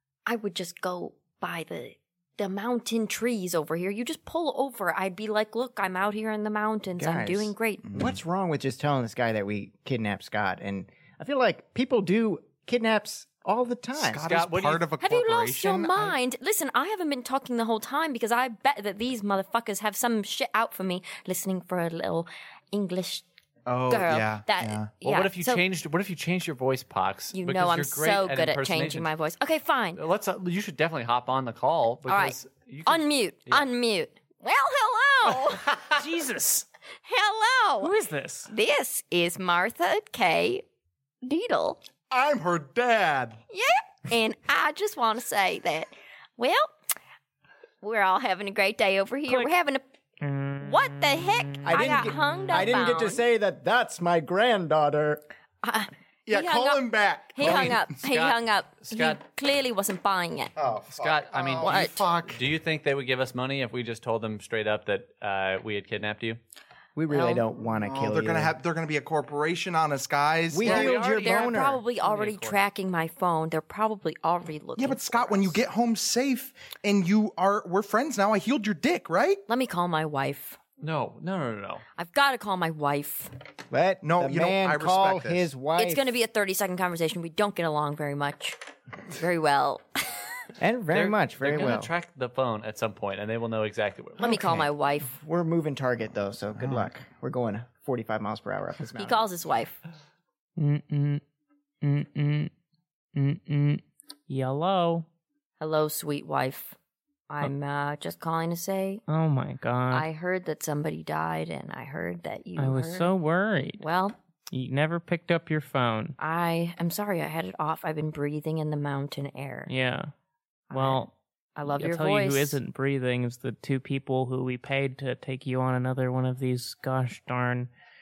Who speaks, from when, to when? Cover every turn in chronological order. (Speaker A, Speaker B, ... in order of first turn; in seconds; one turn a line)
Speaker A: 0.3-7.9
Speaker B: 7.0-14.2
Speaker C: 7.8-8.2
Speaker C: 14.0-16.2
Speaker D: 14.2-14.9
Speaker A: 15.0-23.2
Speaker C: 23.7-24.9
Speaker A: 23.9-25.6
Speaker D: 25.0-29.1
Speaker A: 27.3-30.0
Speaker D: 29.9-33.7
Speaker A: 32.1-35.9
Speaker E: 35.9-36.7
Speaker A: 37.1-38.0
Speaker E: 37.8-38.5
Speaker A: 38.5-40.6
Speaker A: 41.2-41.8
Speaker C: 42.1-43.4
Speaker A: 43.5-46.7
Speaker A: 47.8-49.8
Speaker E: 50.2-52.0
Speaker A: 50.6-53.2
Speaker B: 51.6-55.2
Speaker A: 55.6-60.5
Speaker C: 56.3-57.9
Speaker D: 57.4-59.2
Speaker C: 60.6-62.5
Speaker D: 60.9-66.4
Speaker A: 61.6-62.0
Speaker B: 67.0-68.5
Speaker A: 67.1-67.5
Speaker C: 67.8-70.7
Speaker B: 70.5-71.8
Speaker D: 70.6-72.6
Speaker A: 70.6-75.6
Speaker C: 74.8-79.4
Speaker A: 79.5-80.6
Speaker D: 80.8-81.8
Speaker A: 82.0-83.3
Speaker B: 83.7-86.1
Speaker C: 84.0-85.5
Speaker A: 85.8-88.6
Speaker A: 89.1-89.9
Speaker B: 90.6-91.9
Speaker D: 90.9-94.4
Speaker A: 94.2-95.1
Speaker B: 94.2-99.2
Speaker C: 96.6-96.9
Speaker A: 99.0-99.8
Speaker E: 100.6-101.2
Speaker E: 101.8-102.5
Speaker E: 103.2-105.1
Speaker A: 105.6-106.8
Speaker A: 107.3-109.0
Speaker E: 109.1-110.1
Speaker A: 109.9-113.1
Speaker E: 112.6-113.8
Speaker A: 113.8-114.2
Speaker E: 114.5-116.2
Speaker A: 116.2-119.7
Speaker E: 119.7-120.1
Speaker A: 120.7-121.0
Speaker E: 120.7-121.1
Speaker A: 121.6-122.6
Speaker E: 121.7-127.7